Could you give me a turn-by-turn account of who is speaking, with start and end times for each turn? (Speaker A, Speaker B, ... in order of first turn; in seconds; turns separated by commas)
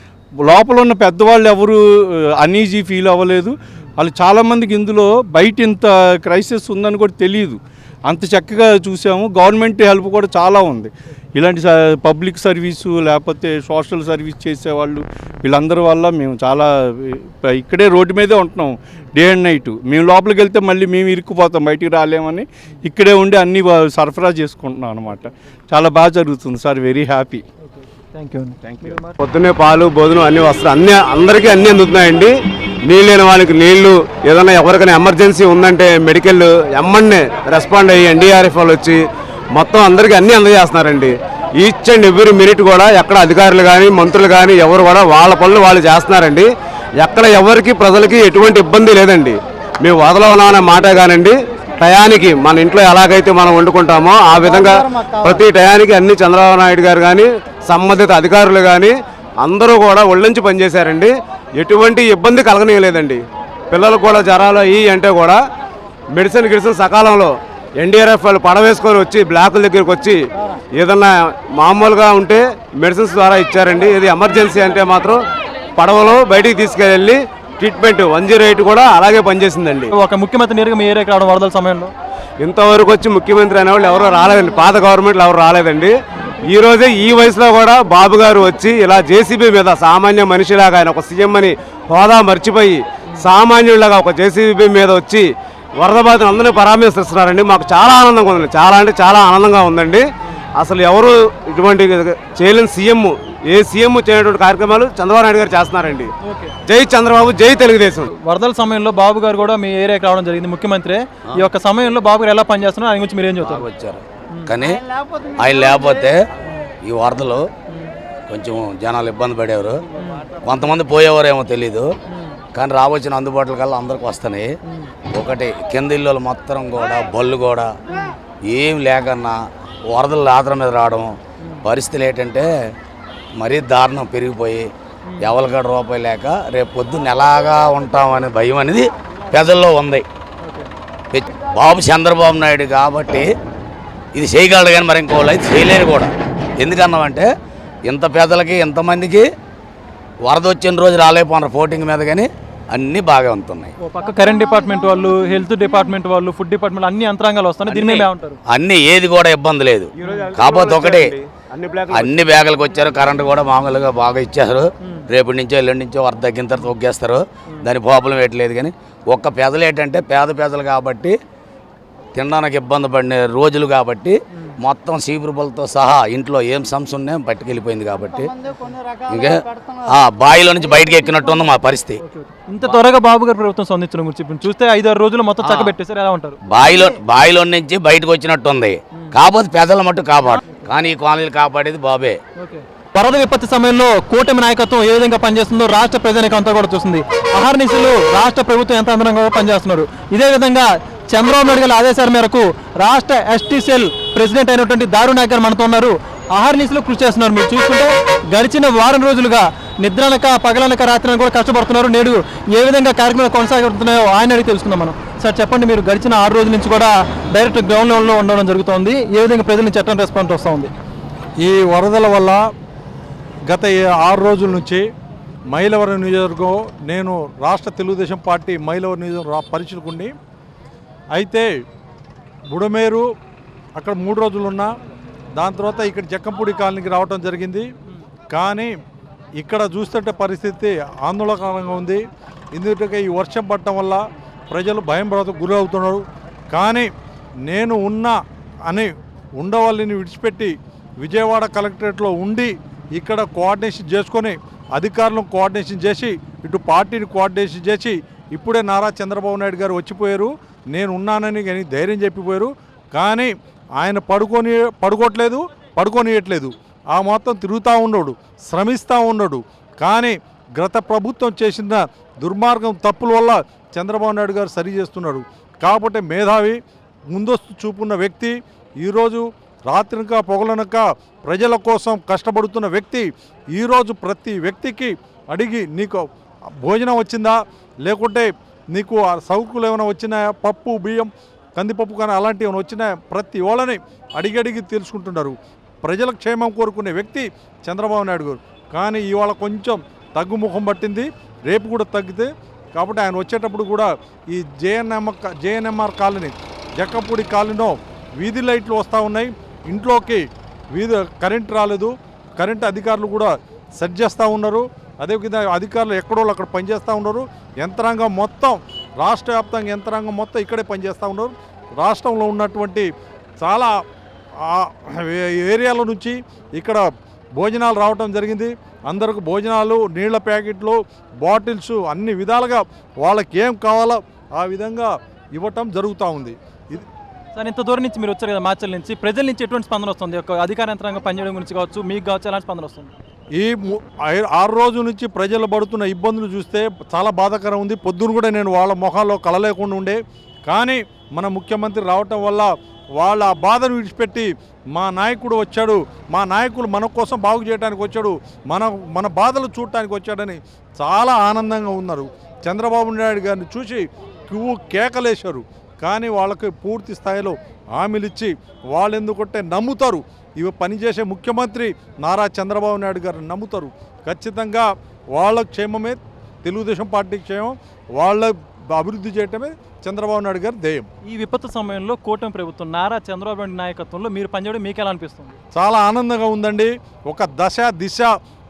Speaker A: 0.4-27.4, Speaker B: 27.6-29.2, Speaker A: 28.6-29.0, Speaker C: 29.2-32.3, Speaker C: 32.9-65.4, Speaker C: 66.1-79.9, Speaker B: 79.9-81.9, Speaker C: 82.4-100.1, Speaker C: 100.6-106.1, Speaker B: 106.2-106.5, Speaker C: 106.7-108.0, Speaker B: 108.0-113.7, Speaker D: 113.4-114.8, Speaker D: 115.4-116.2, Speaker D: 116.8-117.5, Speaker D: 118.3-119.8, Speaker B: 120.0-120.2, Speaker D: 120.4-121.9, Speaker D: 122.5-124.5, Speaker D: 125.1-127.7, Speaker D: 128.5-132.5, Speaker D: 133.4-134.7, Speaker B: 135.1-135.3, Speaker D: 135.2-140.0, Speaker B: 140.4-140.7, Speaker D: 141.1-143.3, Speaker D: 144.1-147.3, Speaker D: 147.9-149.2, Speaker D: 150.2-153.7, Speaker B: 153.8-158.4, Speaker D: 157.7-161.2, Speaker C: 160.0-162.3, Speaker B: 160.0-160.3, Speaker D: 161.9-171.1, Speaker D: 172.1-178.3, Speaker D: 179.1-182.0, Speaker B: 182.0-186.4, Speaker D: 185.4-185.7, Speaker D: 186.5-192.2, Speaker B: 192.4-220.7, Speaker E: 221.4-222.4, Speaker E: 223.5-224.8, Speaker E: 225.5-230.1, Speaker E: 231.1-231.5, Speaker E: 232.5-233.1, Speaker E: 233.8-234.7, Speaker E: 235.3-237.7, Speaker E: 238.3-238.7, Speaker E: 239.4-246.9, Speaker E: 247.5-248.2, Speaker E: 248.7-276.6, Speaker E: 277.1-286.0, Speaker E: 286.6-322.9, Speaker E: 323.4-323.7, Speaker E: 324.5-326.8, Speaker E: 327.4-336.9, Speaker B: 337.4-342.9, Speaker E: 343.4-380.9, Speaker B: 381.1-385.4, Speaker E: 385.5-388.1